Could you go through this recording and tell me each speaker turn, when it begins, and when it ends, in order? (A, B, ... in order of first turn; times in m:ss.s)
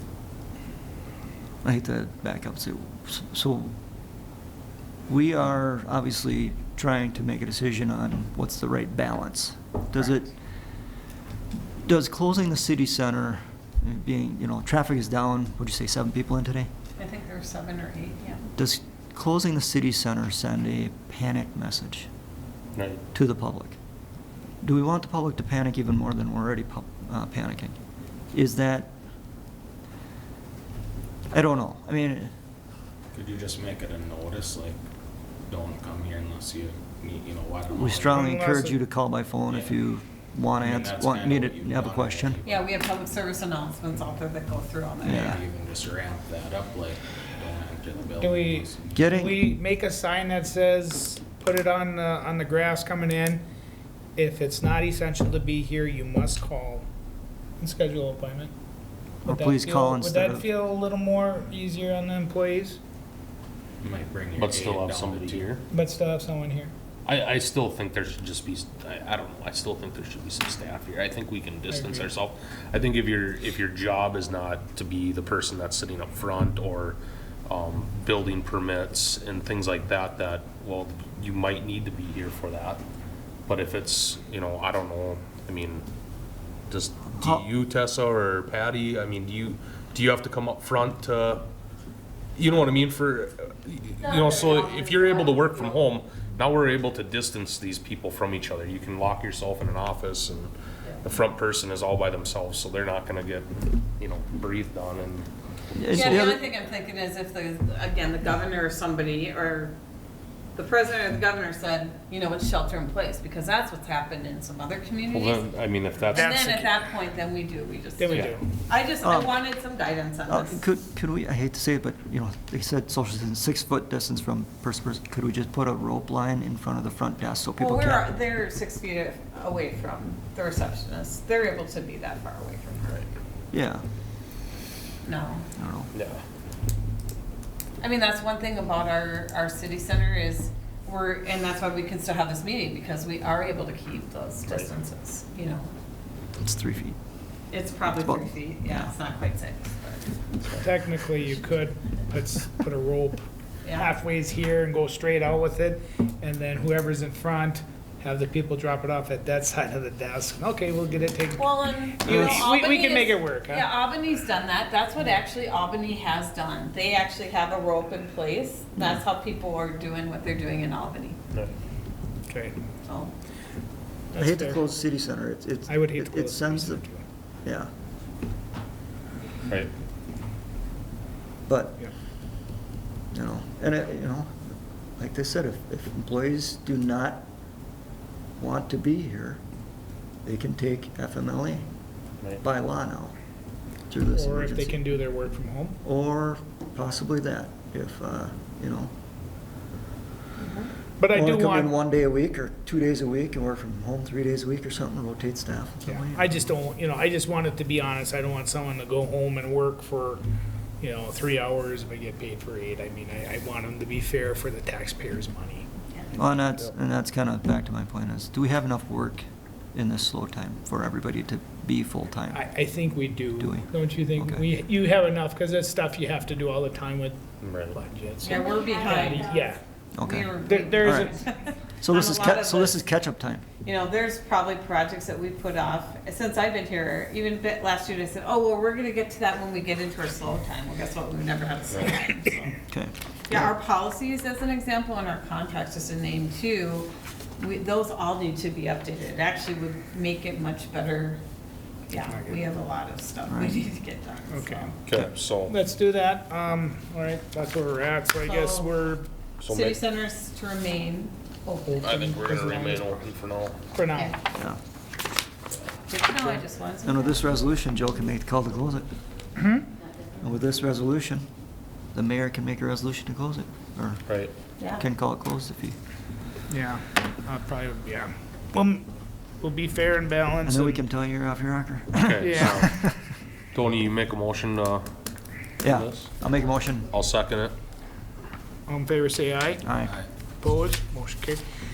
0:01.6-0:03.7 A
0:05.1-0:10.3 A
0:11.8-0:16.7 A
0:17.0-0:18.4 B
0:18.5-0:22.1 A
0:22.7-0:23.0 C
0:23.1-0:23.8 A
0:24.6-0:27.8 A
0:28.3-0:28.9 A
0:31.3-0:32.3 A
0:33.1-0:34.8 D
0:35.4-0:38.2 D
0:37.7-0:42.4 A
0:38.1-0:38.8 E
0:39.5-0:39.8 D
0:40.6-0:42.7 D
0:42.4-0:45.4 B
0:45.0-0:45.4 A
0:45.0-0:49.0 D
0:48.2-0:53.4 E
0:48.9-0:49.5 A
0:54.2-0:56.8 E
0:57.6-0:58.5 E
0:59.2-1:00.5 A
0:59.2-1:02.8 E
1:03.8-1:05.6 D
1:04.3-1:05.6 C
1:05.7-1:06.7 E
1:07.0-1:22.8 C
1:11.7-1:12.1 E
1:23.5-1:25.8 C
1:26.7-1:31.4 C
1:27.2-1:27.4 A
1:32.3-1:45.3 C
1:45.8-1:46.4 A
1:45.9-1:49.7 B
1:45.9-1:46.3 C
1:50.5-1:55.4 B
1:55.1-1:56.6 C
1:56.1-2:00.6 B
1:56.1-1:56.7 E
1:58.0-1:58.4 E
1:58.1-1:58.4 C
1:59.0-1:59.4 A
2:00.3-2:08.1 A
2:07.6-2:13.0 B
2:13.5-2:13.8 A
2:15.0-2:15.5 B
2:15.6-2:15.9 A
2:15.9-2:16.2 C
2:17.8-2:25.7 B
2:24.4-2:24.7 C
2:26.4-2:27.0 A
2:27.5-2:30.0 B
2:27.9-2:28.9 A
2:30.6-2:43.7 E
2:33.6-2:33.9 B
2:41.4-2:51.2 B
2:42.1-2:42.4 A
2:52.3-2:52.8 E
2:52.9-2:53.1 B
2:54.1-2:54.6 E
2:54.2-2:56.8 A
2:55.7-2:57.0 E
2:57.4-2:57.7 A
3:01.4-3:01.9 A
3:03.1-3:07.2 A
3:08.4-3:09.4 A
3:10.2-3:11.6 A
3:12.4-3:13.2 A
3:13.9-3:14.8 A
3:14.1-3:15.8 E
3:15.8-3:18.9 A
3:20.4-3:20.7 B
3:21.0-3:21.7 E
3:21.1-3:26.4 A
3:25.8-3:30.2 E
3:30.8-3:36.7 E
3:36.2-3:42.4 A
3:42.3-3:47.2 E
3:43.4-3:44.4 A
3:47.4-3:47.8 C
3:47.7-3:49.6 E
3:48.2-3:49.3 B
3:50.0-3:51.2 A
3:50.0-3:52.8 B
3:50.4-3:51.2 E
3:51.8-3:53.4 A
3:53.6-4:02.6 B
4:02.7-4:03.5 A
4:03.3-4:11.2 B
4:11.9-4:14.7 B
4:12.1-4:12.4 E
4:13.3-4:13.6 A
4:14.3-4:14.8 E
4:14.8-4:15.6 C
4:15.4-4:19.1 E
4:18.2-4:18.7 B
4:19.4-4:19.8 C
4:19.5-4:22.0 B
4:21.7-4:23.0 E
4:21.8-4:23.6 C
4:23.7-4:24.2 E
4:25.9-4:27.2 B
4:26.2-4:28.9 A
4:29.4-4:29.6 E
4:30.2-4:31.2 A
4:31.9-4:34.1 A
4:34.7-4:35.8 A
4:36.5-4:38.9 E
4:39.4-4:40.8 E
4:40.4-4:43.0 A
4:42.0-4:42.9 C
4:42.2-4:42.6 E
4:43.5-4:44.9 C
4:45.6-4:46.1 C
4:45.6-4:46.9 A
4:46.9-4:47.5 C
4:48.7-4:49.7 E
4:49.6-4:49.9 A
4:49.8-4:50.1 D
4:50.4-4:51.4 E